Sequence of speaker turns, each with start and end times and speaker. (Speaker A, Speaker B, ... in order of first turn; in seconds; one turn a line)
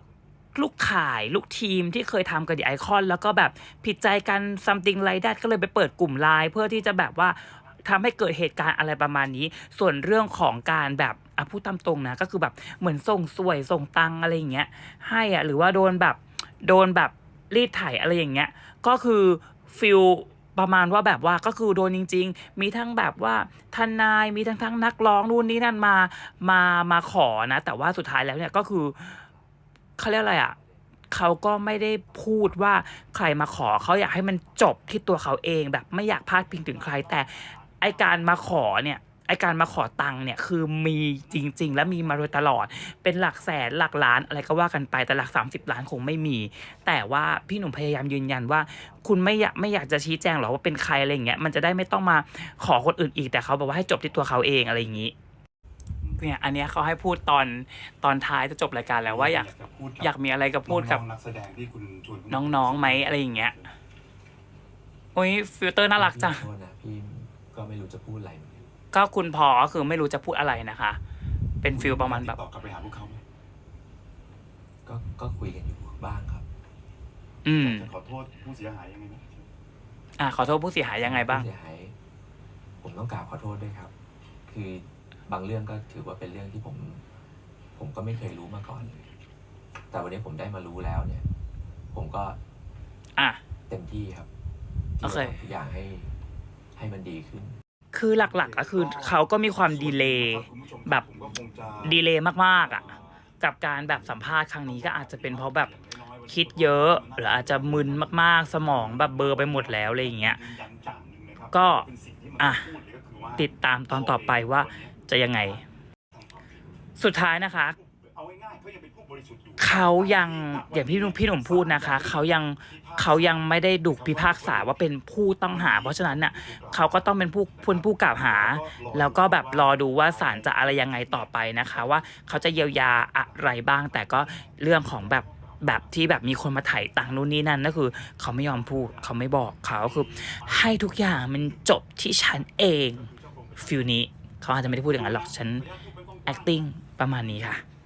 Speaker A: 0.5-29.2
Speaker A: 30.0-30.6
Speaker A: 31.1-55.1
Speaker B: 41.3-42.4
Speaker A: 56.2-59.5
Speaker B: 59.0-60.1
Speaker A: 60.0-61.0
Speaker B: 60.7-63.6
Speaker A: 62.3-63.5
Speaker A: 65.1-66.4
Speaker C: 66.0-68.6
Speaker A: 68.9-71.0
Speaker A: 71.6-72.4
Speaker B: 71.7-73.2
Speaker C: 74.8-76.5
Speaker A: 77.4-77.9
Speaker B: 77.6-79.5
Speaker A: 80.2-81.5
Speaker C: 81.0-81.9
Speaker C: 82.8-83.9
Speaker C: 84.5-87.0
Speaker C: 87.7-89.1
Speaker C: 89.9-91.2
Speaker C: 91.9-92.4
Speaker C: 93.7-94.3
Speaker C: 95.0-96.2
Speaker A: 95.0-95.4
Speaker C: 96.7-97.6
Speaker A: 97.9-101.1
Speaker B: 98.2-102.0
Speaker A: 101.8-105.7
Speaker B: 102.6-103.0
Speaker B: 104.5-115.0
Speaker A: 106.3-110.4
Speaker A: 111.5-111.8
Speaker A: 112.4-112.7
Speaker A: 113.4-115.6
Speaker B: 116.1-116.6
Speaker A: 117.0-117.7
Speaker B: 117.8-124.8
Speaker A: 119.6-145.7
Speaker B: 125.5-137.2
Speaker B: 138.4-141.6
Speaker B: 143.0-143.9
Speaker B: 144.6-146.6
Speaker A: 146.3-147.6